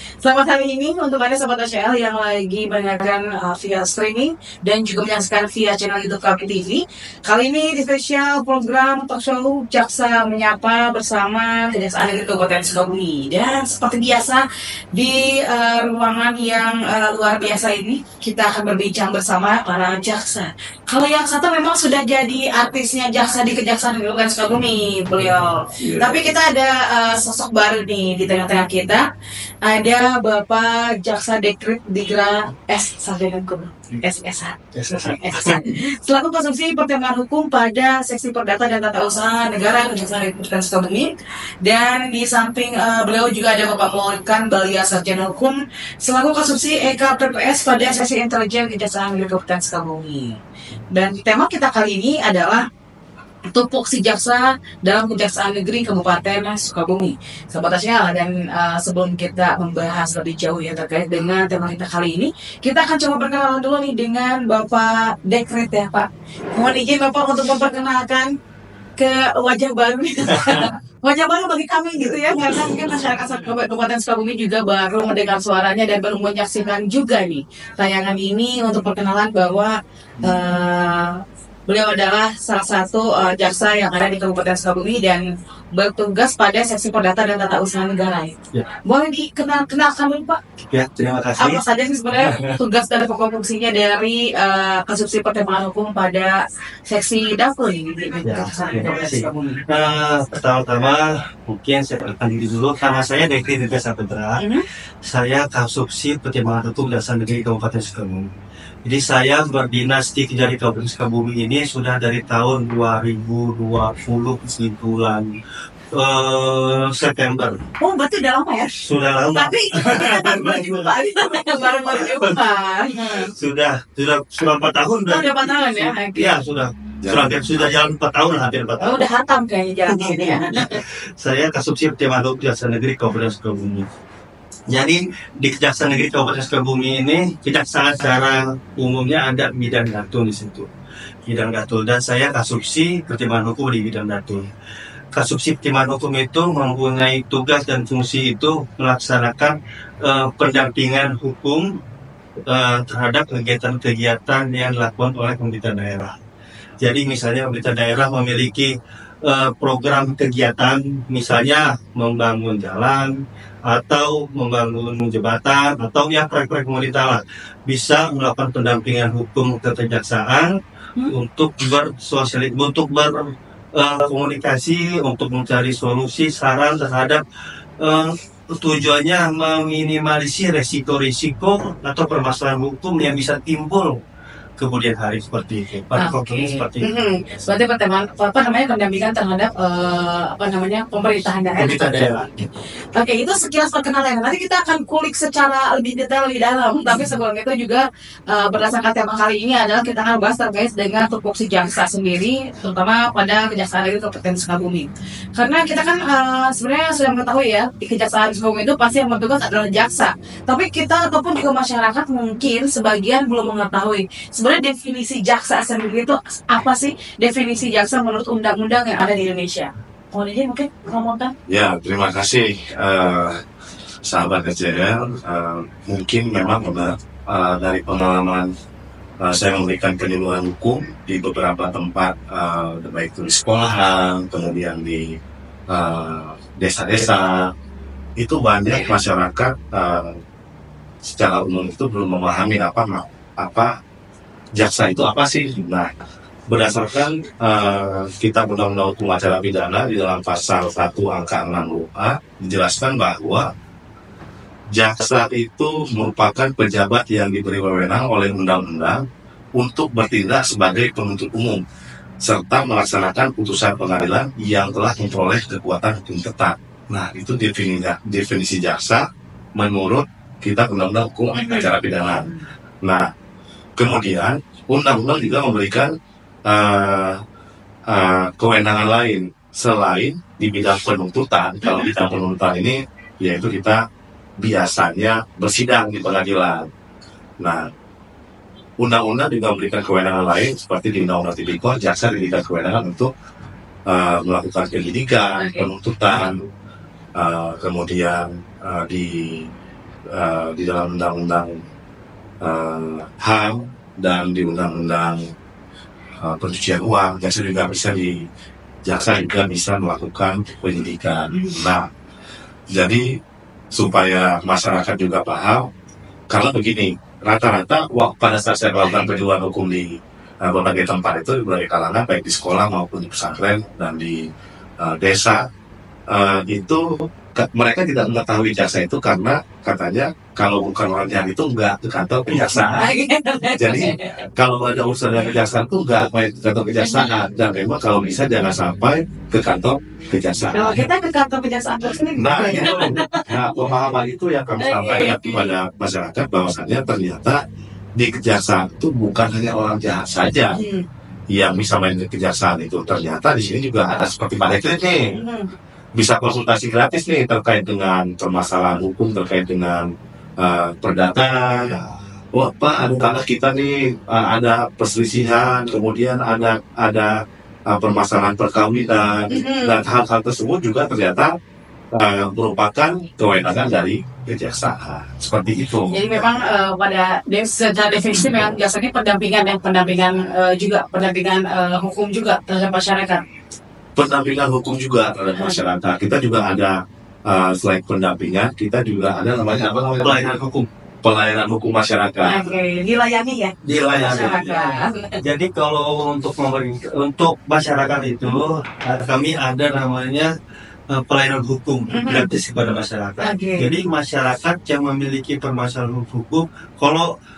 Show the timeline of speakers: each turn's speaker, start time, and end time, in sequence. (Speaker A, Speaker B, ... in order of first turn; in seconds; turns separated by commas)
Speaker A: 0.2-14.4, Speaker A: 14.9-29.1, Speaker B: 25.8-26.3, Speaker A: 29.6-41.1, Speaker C: 34.7-35.6, Speaker A: 41.6-50.4, Speaker A: 50.9-52.6, Speaker A: 53.5-68.3, Speaker A: 69.0-81.2, Speaker C: 70.3-70.7, Speaker A: 81.7-90.4, Speaker C: 90.7-91.6, Speaker A: 91.4-99.6, Speaker C: 92.2-92.5, Speaker C: 98.2-104.5, Speaker A: 104.4-104.6, Speaker C: 105.0-108.3, Speaker C: 108.8-115.3, Speaker C: 115.9-117.6, Speaker A: 117.8-118.8, Speaker C: 118.8-120.9, Speaker A: 119.3-123.3, Speaker C: 122.0-122.4, Speaker C: 123.2-129.0, Speaker A: 125.1-126.3, Speaker B: 127.0-127.7, Speaker A: 128.8-130.8, Speaker C: 129.9-133.9, Speaker C: 134.7-140.7, Speaker C: 141.3-144.5, Speaker C: 145.1-151.7, Speaker C: 152.5-156.2, Speaker C: 156.8-163.1, Speaker C: 163.7-170.5, Speaker C: 171.1-177.2, Speaker C: 177.8-184.0, Speaker C: 184.6-186.9, Speaker A: 186.0-192.3, Speaker C: 191.6-192.4, Speaker A: 192.9-221.3, Speaker B: 221.5-223.4, Speaker B: 224.1-228.5, Speaker B: 229.2-235.2, Speaker B: 235.7-237.5, Speaker B: 238.2-240.2, Speaker B: 241.0-243.7, Speaker B: 244.6-245.9, Speaker B: 246.5-253.5, Speaker B: 254.7-259.0, Speaker B: 259.6-261.6, Speaker B: 262.2-269.1, Speaker B: 269.6-272.3, Speaker A: 271.3-271.7, Speaker B: 273.8-275.9, Speaker B: 276.5-277.2, Speaker B: 277.9-283.8, Speaker B: 284.4-286.6, Speaker B: 288.8-293.1, Speaker B: 293.9-296.4, Speaker A: 295.4-295.7, Speaker B: 297.2-299.5, Speaker B: 300.1-301.6, Speaker B: 302.4-305.3, Speaker B: 306.2-308.2, Speaker B: 308.9-311.9, Speaker B: 312.7-313.1, Speaker B: 313.8-315.6, Speaker B: 316.3-319.9, Speaker B: 320.4-324.2, Speaker B: 324.8-325.4, Speaker B: 326.1-332.9, Speaker C: 332.3-332.8, Speaker A: 332.8-334.1, Speaker B: 333.6-340.9, Speaker A: 336.8-337.1, Speaker A: 340.5-343.2, Speaker B: 342.2-347.4, Speaker A: 344.6-345.6, Speaker B: 348.0-350.6, Speaker A: 350.5-350.8, Speaker B: 351.3-355.0, Speaker A: 355.1-355.5, Speaker B: 356.0-359.9, Speaker B: 360.4-361.8, Speaker B: 362.3-367.1, Speaker B: 367.7-371.3, Speaker A: 369.3-369.8, Speaker B: 371.9-376.0, Speaker A: 375.9-383.2, Speaker B: 384.0-386.8, Speaker A: 385.4-385.6, Speaker B: 387.3-390.4, Speaker C: 390.0-390.7, Speaker B: 391.0-392.5, Speaker A: 392.2-395.2, Speaker C: 393.6-400.3, Speaker B: 393.7-394.4, Speaker C: 400.9-407.1, Speaker A: 401.9-402.3, Speaker A: 403.2-403.7